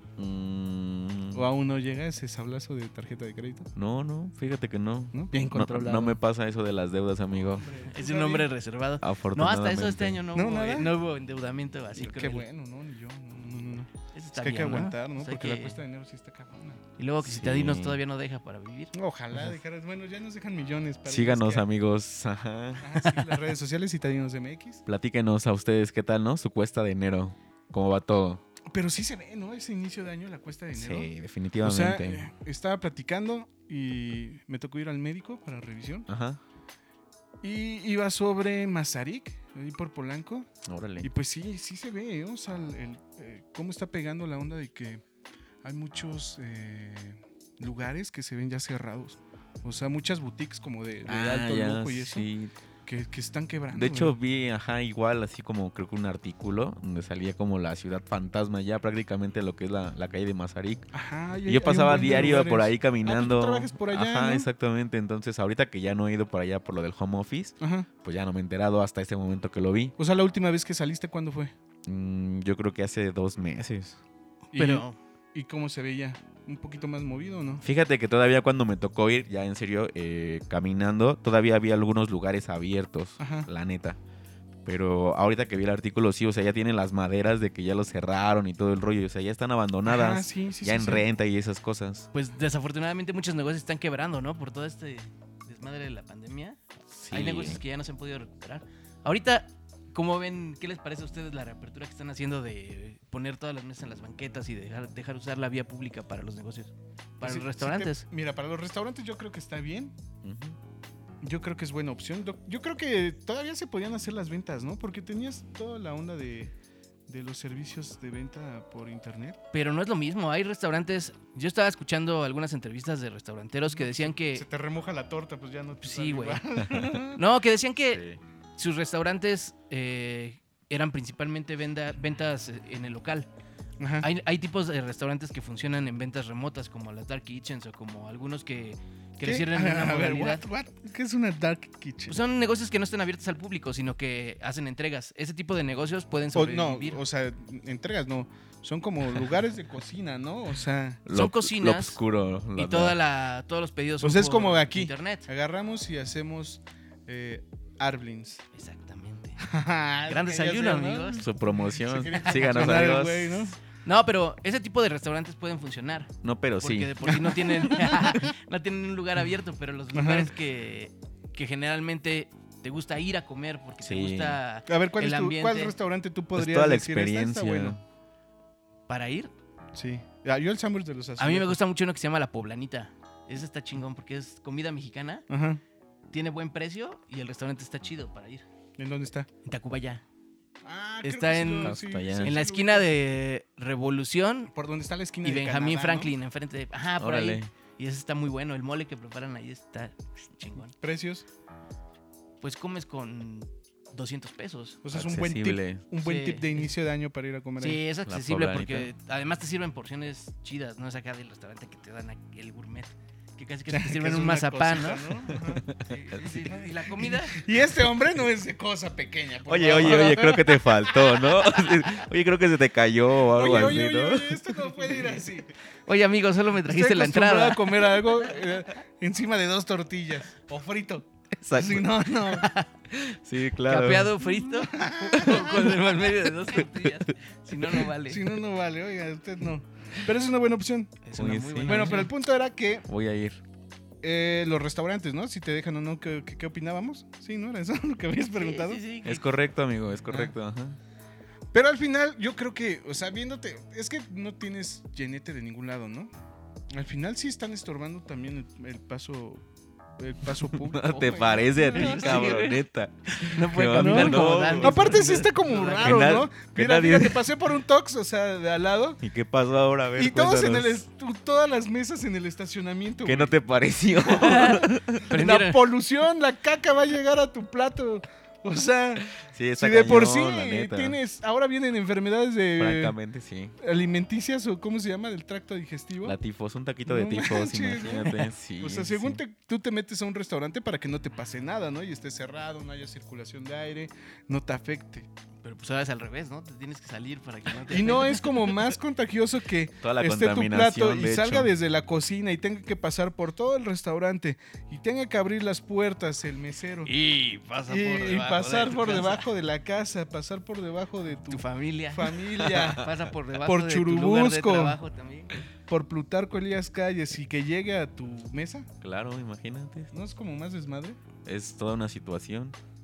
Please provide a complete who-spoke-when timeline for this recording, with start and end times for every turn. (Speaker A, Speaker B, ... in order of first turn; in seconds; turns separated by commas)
Speaker A: 0.2-1.5, Speaker B: 1.3-3.7, Speaker A: 3.8-7.7, Speaker B: 5.1-6.2, Speaker B: 7.5-8.5, Speaker C: 7.9-12.4, Speaker A: 9.0-10.2, Speaker B: 10.3-11.0, Speaker B: 11.9-16.8, Speaker C: 14.1-15.8, Speaker C: 17.0-19.5, Speaker A: 17.2-18.0, Speaker B: 18.9-21.6, Speaker A: 21.1-23.0, Speaker B: 22.8-24.8, Speaker A: 24.9-28.4, Speaker B: 28.7-36.1, Speaker A: 30.7-32.3, Speaker A: 36.1-36.4, Speaker B: 37.4-40.5, Speaker A: 40.6-41.1, Speaker B: 41.0-45.0, Speaker B: 45.6-52.3, Speaker A: 51.0-52.5, Speaker B: 52.9-54.1, Speaker A: 53.7-60.9, Speaker B: 60.9-64.5, Speaker A: 61.5-69.9, Speaker B: 67.6-67.9, Speaker B: 70.0-71.5, Speaker A: 71.8-74.0, Speaker B: 74.5-77.6, Speaker C: 74.6-75.0, Speaker A: 77.6-84.0, Speaker B: 83.2-83.5, Speaker A: 84.6-92.1, Speaker B: 89.8-91.0, Speaker C: 92.1-96.6, Speaker A: 96.9-97.6, Speaker C: 97.1-108.0, Speaker B: 107.2-109.9, Speaker A: 110.2-110.6, Speaker B: 111.2-116.5, Speaker B: 117.1-119.4, Speaker C: 119.5-124.4, Speaker B: 123.7-127.2, Speaker C: 125.8-126.4, Speaker A: 126.7-127.0, Speaker C: 127.1-128.0, Speaker A: 127.9-128.2, Speaker C: 128.6-133.3, Speaker B: 133.8-134.1, Speaker C: 134.0-140.4, Speaker B: 139.2-142.2, Speaker C: 142.1-147.0, Speaker B: 146.3-151.0, Speaker A: 151.1-153.0, Speaker C: 151.1-152.0, Speaker C: 152.5-155.3, Speaker B: 154.0-158.4, Speaker C: 158.5-159.4, Speaker B: 159.4-163.6, Speaker C: 160.1-161.2, Speaker A: 161.2-163.5, Speaker C: 162.1-162.5, Speaker C: 163.8-175.7, Speaker A: 166.2-167.2, Speaker B: 167.2-168.2, Speaker B: 169.9-170.3, Speaker A: 173.8-174.4, Speaker B: 174.7-177.8, Speaker A: 176.3-177.8, Speaker C: 178.9-179.3, Speaker B: 179.7-181.6, Speaker C: 181.2-185.2, Speaker B: 185.3-185.6, Speaker C: 186.1-188.4, Speaker B: 188.8-189.3, Speaker C: 189.4-190.0, Speaker B: 190.6-192.9, Speaker C: 191.0-194.5, Speaker A: 191.6-192.3, Speaker B: 194.5-196.1, Speaker C: 195.2-200.7, Speaker A: 197.0-197.5, Speaker B: 200.7-201.2, Speaker C: 202.4-204.8, Speaker B: 204.8-207.8, Speaker A: 204.9-205.8, Speaker C: 206.0-206.7, Speaker C: 207.6-217.4, Speaker A: 208.1-208.9, Speaker B: 213.7-221.1, Speaker A: 219.4-224.9, Speaker B: 223.3-225.5, Speaker C: 225.9-228.1, Speaker B: 226.6-232.5, Speaker A: 231.4-231.9, Speaker C: 232.4-232.7, Speaker A: 232.9-234.2, Speaker C: 233.6-238.3, Speaker B: 234.5-235.6, Speaker B: 238.1-241.0, Speaker C: 241.0-242.1, Speaker A: 241.2-242.1, Speaker B: 241.6-242.9, Speaker A: 242.9-243.4, Speaker B: 244.0-248.8, Speaker C: 248.3-249.2, Speaker A: 249.0-250.8, Speaker B: 250.1-250.3, Speaker B: 251.5-256.1, Speaker B: 256.7-259.4, Speaker B: 260.0-262.4, Speaker A: 260.4-265.1, Speaker C: 261.7-266.1, Speaker B: 263.7-269.0, Speaker A: 265.8-267.2, Speaker A: 269.0-270.8, Speaker B: 269.9-273.3, Speaker A: 273.0-275.1, Speaker C: 274.1-275.6, Speaker B: 275.0-282.9, Speaker A: 279.2-281.0, Speaker A: 282.6-283.5, Speaker B: 283.6-286.2, Speaker A: 286.0-289.2, Speaker B: 286.9-295.1, Speaker C: 295.4-298.5, Speaker B: 297.7-306.9, Speaker A: 299.8-301.5, Speaker C: 306.8-309.2, Speaker B: 307.7-312.9, Speaker C: 311.3-315.4, Speaker B: 313.4-314.8, Speaker B: 315.7-318.7, Speaker A: 318.8-319.9, Speaker B: 319.9-321.0, Speaker A: 321.2-322.6